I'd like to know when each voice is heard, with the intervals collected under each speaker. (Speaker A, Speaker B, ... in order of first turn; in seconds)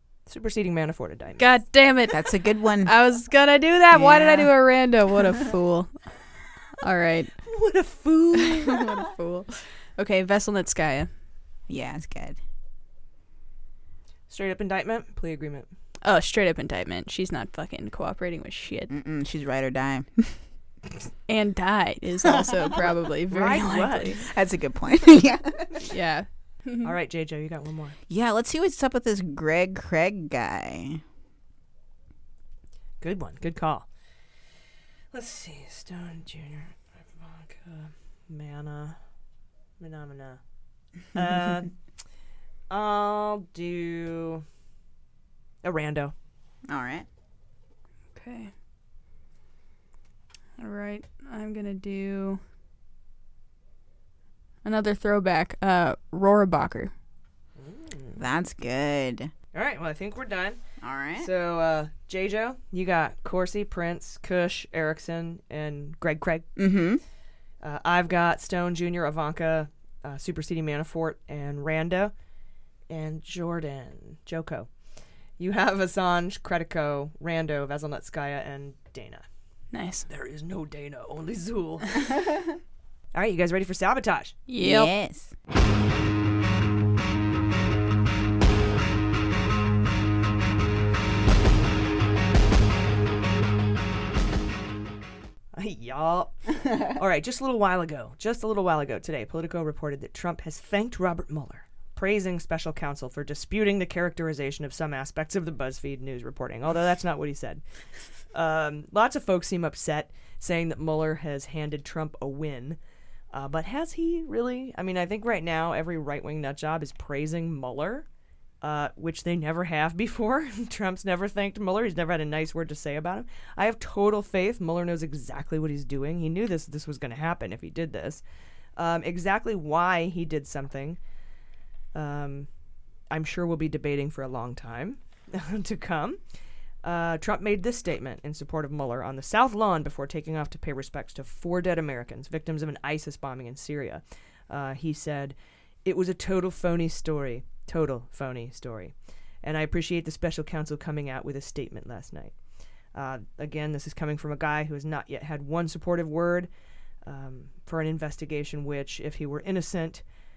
Speaker A: 0.2-1.6, 7.5-8.8, 14.3-15.7, 23.3-24.2, 26.8-28.0, 33.0-33.9, 35.1-39.1, 39.8-42.0, 42.7-44.4, 45.6-46.1, 57.6-58.2, 59.5-66.5, 67.6-72.2, 72.9-82.0, 83.1-84.4, 95.5-112.8, 113.3-118.1, 118.6-128.2, 128.8-131.0, 131.9-156.5, 157.0-160.1
Speaker B: 1.4-7.4, 8.4-11.2, 16.0-18.9, 21.3-24.2, 25.9-26.9, 48.1-48.5, 50.6-52.4, 54.6-56.9, 79.7-80.1, 84.5-85.0
Speaker C: 2.1-3.1, 3.9-4.9, 11.7-12.4, 18.9-20.5, 24.2-25.7, 28.1-31.0, 46.7-47.0, 58.1-59.3, 60.8-61.3, 66.5-67.0, 84.6-85.3